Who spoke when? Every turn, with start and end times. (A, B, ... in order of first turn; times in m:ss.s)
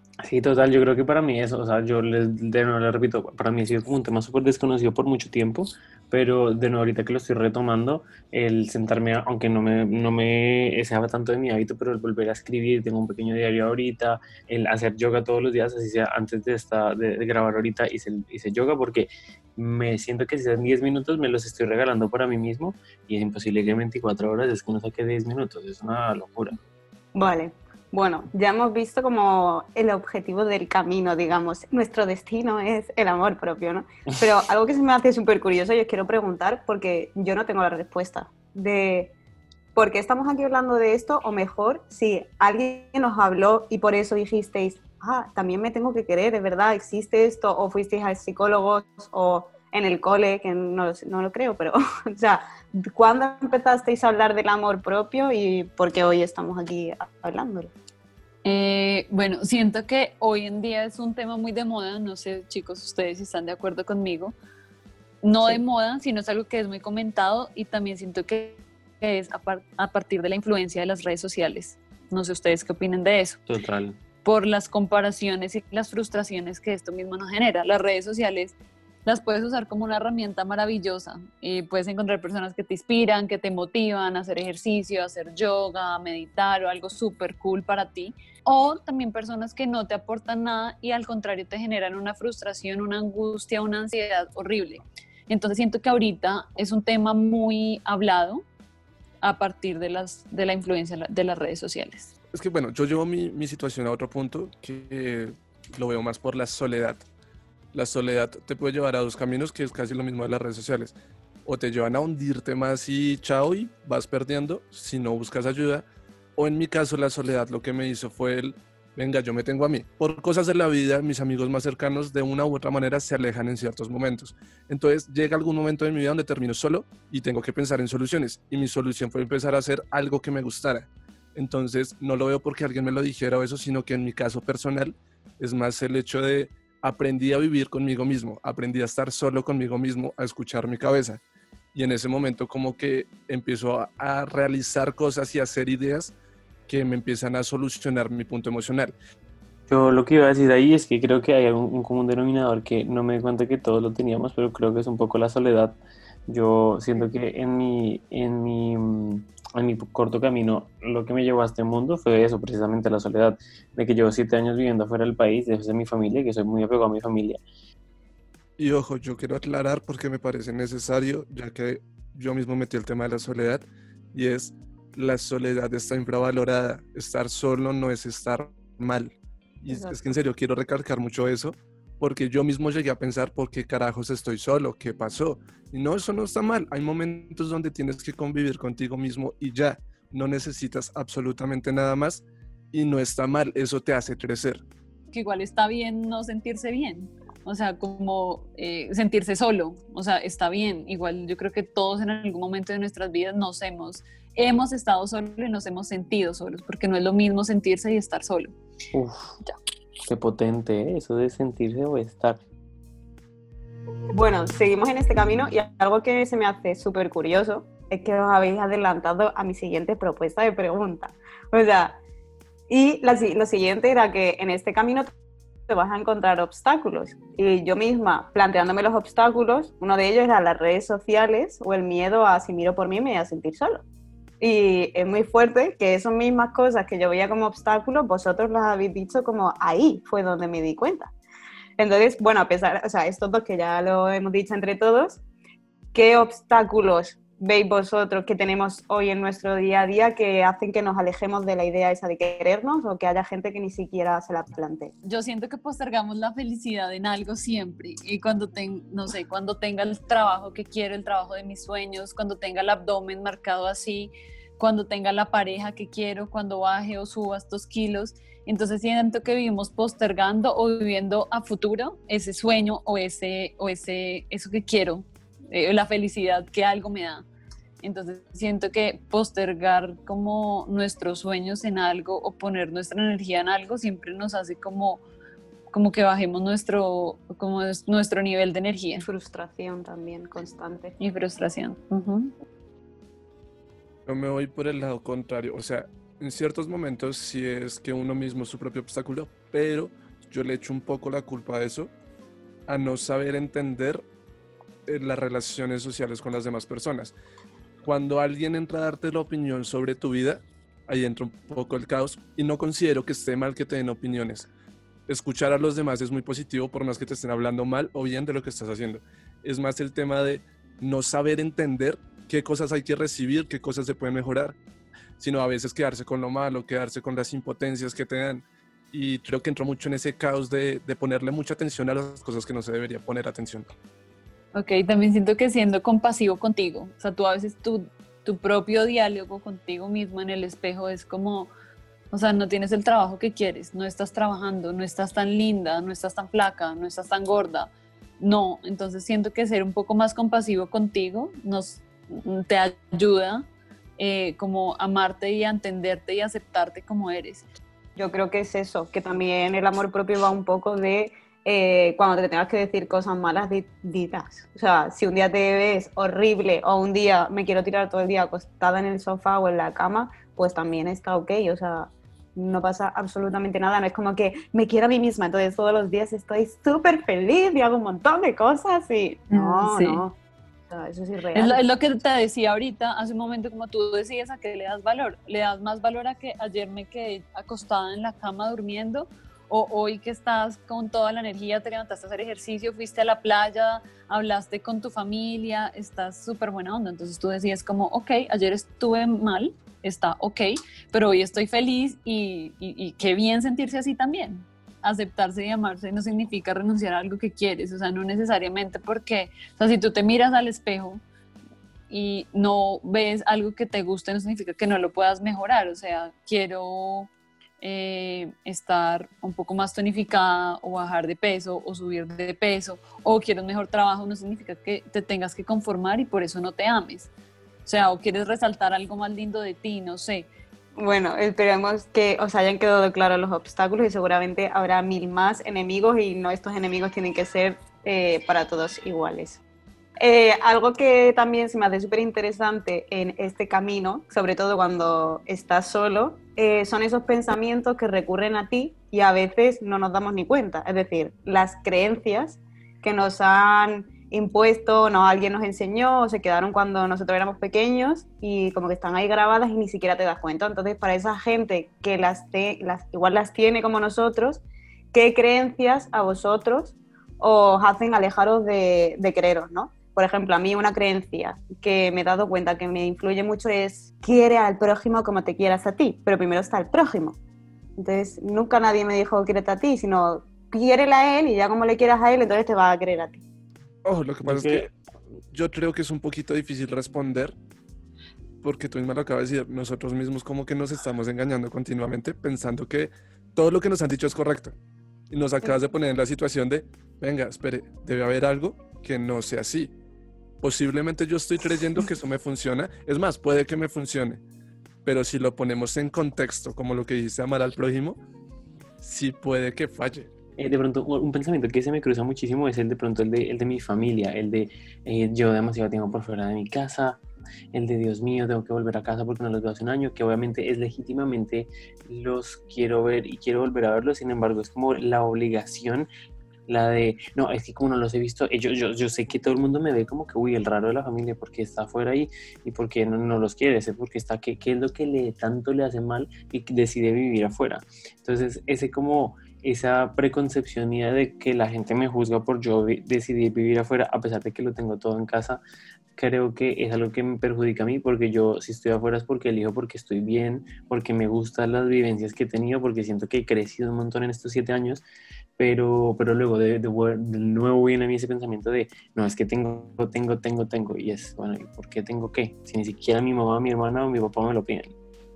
0:00.2-0:26.6 A
0:27.1-0:39.1 B
0:39.7-0:57.7 B
0:58.4-1:04.3 C
1:05.2-1:13.4 C
1:13.5-1:14.0 A
1:14.2-1:18.5 C
1:19.0-1:38.4 C
1:39.2-1:42.1 C
1:42.3-1:47.0 D
1:47.7-2:21.2 D
2:21.7-2:26.1 D
2:26.7-2:29.0 D
2:29.7-2:47.4 A
2:48.6-3:14.6 D
2:59.7-3:00.0 B
3:15.1-3:28.5 C
3:28.9-3:29.4 A
3:30.1-3:32.4 A
3:34.1-3:42.0 B
3:42.7-3:45.1 B
3:45.7-3:53.8 B
3:54.4-4:01.1 B
4:01.8-4:05.2 B
4:05.9-4:14.9 B
4:15.0-4:37.2 C
4:37.8-4:45.0 C
4:45.7-4:49.1 C
4:49.0-4:51.0 B
4:51.0-4:52.3 C
4:54.0-5:01.9 D
5:02.7-5:04.0 D
5:04.8-5:07.1 D
5:07.8-5:14.5 D
5:15.1-5:24.6 D
5:25.2-5:33.7 D
5:34.5-5:41.5 C
5:42.1-5:53.4 C
5:54.0-5:57.5 C
5:58.0-6:20.2 B
6:19.3-6:20.0 C
6:20.7-6:21.6 B
6:21.3-6:51.0 C
6:51.9-6:57.1 C
6:57.6-7:07.1 C
7:07.6-7:10.3 C
7:10.8-7:19.4 B
7:20.0-7:44.4 B
7:44.9-7:57.2 B
7:57.8-8:03.2 B
8:03.8-8:04.7 D
8:04.2-8:04.7 A
8:05.3-8:07.3 D
8:08.4-8:14.5 D
8:15.1-8:19.7 D
8:20.4-8:24.2 D
8:24.8-8:28.0 D
8:28.8-8:30.1 D
8:30.4-8:37.0 A
8:37.5-8:45.9 A
8:46.5-9:05.4 A
9:06.0-9:14.8 A
9:15.4-9:24.7 A